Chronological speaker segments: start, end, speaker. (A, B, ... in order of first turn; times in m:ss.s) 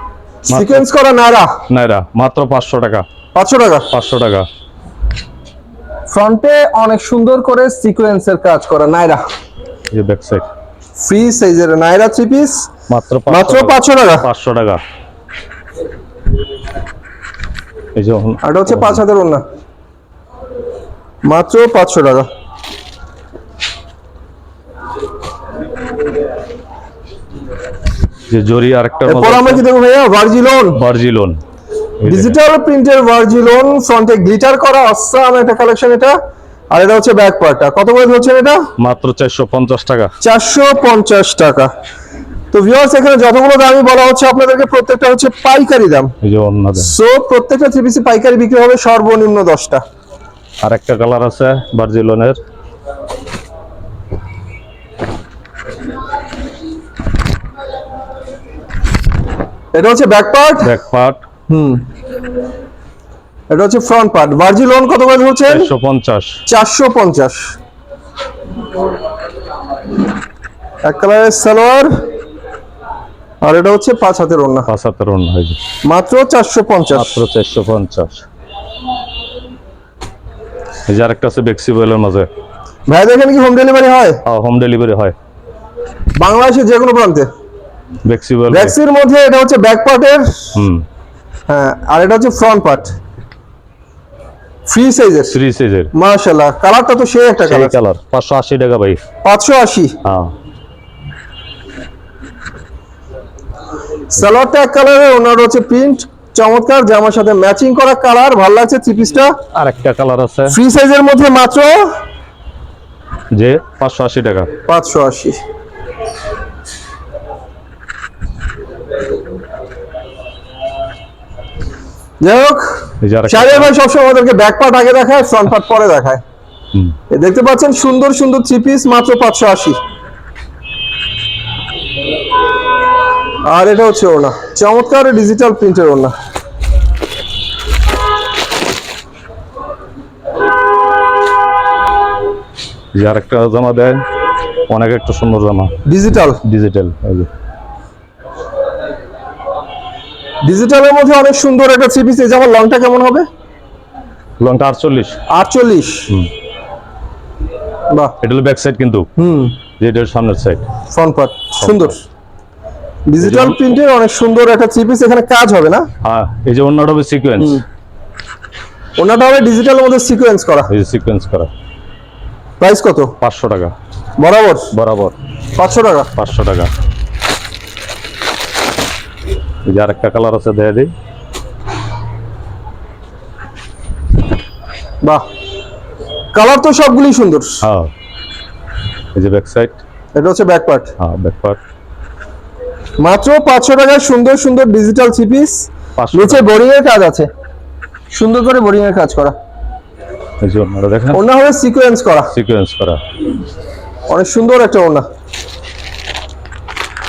0:00.5-0:00.9 A
0:00.5-0:01.6 B
0:01.7-0:03.0 A
0:03.4-0:03.9 B
0:03.9-0:04.5 A
0:06.1-0:09.2 B
0:09.9-0:10.5 A
0:11.0-0:12.7 B
0:12.9-0:14.8 A
0:13.3-0:14.3 B
0:18.0-0:19.0 A
0:18.4-0:19.4 B
0:21.3-0:22.3 B
0:28.3-0:29.6 A
0:29.1-0:30.8 B
0:30.8-0:31.4 A
0:32.0-0:32.4 A
0:32.1-0:36.2 B
0:36.7-0:38.7 B
0:38.8-0:40.1 A
0:40.2-0:41.7 B
0:42.5-0:46.1 B
0:46.2-0:46.9 A
0:46.8-0:49.8 B
0:50.6-0:52.4 A
0:59.7-1:00.7 B
1:00.6-1:01.2 A
1:01.5-1:01.8 B
1:03.5-1:05.7 B
1:05.5-1:06.4 A
1:06.5-1:07.5 B
1:10.8-1:11.9 B
1:13.4-1:14.7 B
1:14.7-1:15.6 A
1:15.9-1:17.2 B
1:16.9-1:18.2 A
1:20.9-1:22.3 A
1:22.9-1:24.2 B
1:24.2-1:25.2 A
1:26.2-1:27.3 B
1:28.0-1:28.8 A
1:28.5-1:30.5 B
1:30.6-1:30.8 A
1:31.5-1:32.9 B
1:34.7-1:35.4 B
1:35.3-1:35.9 A
1:35.9-1:37.8 B
1:37.4-1:39.0 A
1:39.2-1:40.0 B
1:40.0-1:40.3 A
1:44.1-1:49.4 B
1:49.5-1:50.6 A
1:50.5-1:52.0 B
1:53.3-1:54.5 A
1:54.7-1:55.4 B
2:02.2-2:06.2 B
2:03.0-2:03.7 A
2:07.1-2:09.8 B
2:13.5-2:16.1 B
2:22.9-2:24.0 A
2:24.7-2:25.7 A
2:25.8-2:26.4 B
2:26.4-2:27.3 A
2:30.4-2:33.3 B
2:34.4-2:35.2 A
2:35.3-2:36.1 B
2:38.2-2:39.1 A
2:39.2-2:39.6 B
2:39.8-2:40.6 A
2:40.9-2:42.0 B
2:41.6-2:41.9 A
2:43.1-2:45.9 B
2:43.2-2:43.6 A
2:46.0-2:47.6 A
2:49.0-2:50.7 B
2:50.7-2:51.5 A
2:52.6-2:53.1 B
2:53.2-2:53.7 A
2:54.2-2:54.7 B
2:54.7-2:55.2 A
2:55.6-2:56.1 B
2:56.2-2:56.7 A
2:59.7-3:00.9 A
3:06.3-3:07.6 B
3:07.6-3:07.9 A
3:09.2-3:09.8 A
3:10.2-3:10.9 B
3:11.0-3:11.6 A
3:13.0-3:17.3 B
3:16.0-3:16.5 A
3:18.1-3:19.3 B
3:20.4-3:21.2 A
3:21.1-3:22.3 B
3:22.3-3:23.0 A
3:24.1-3:25.1 B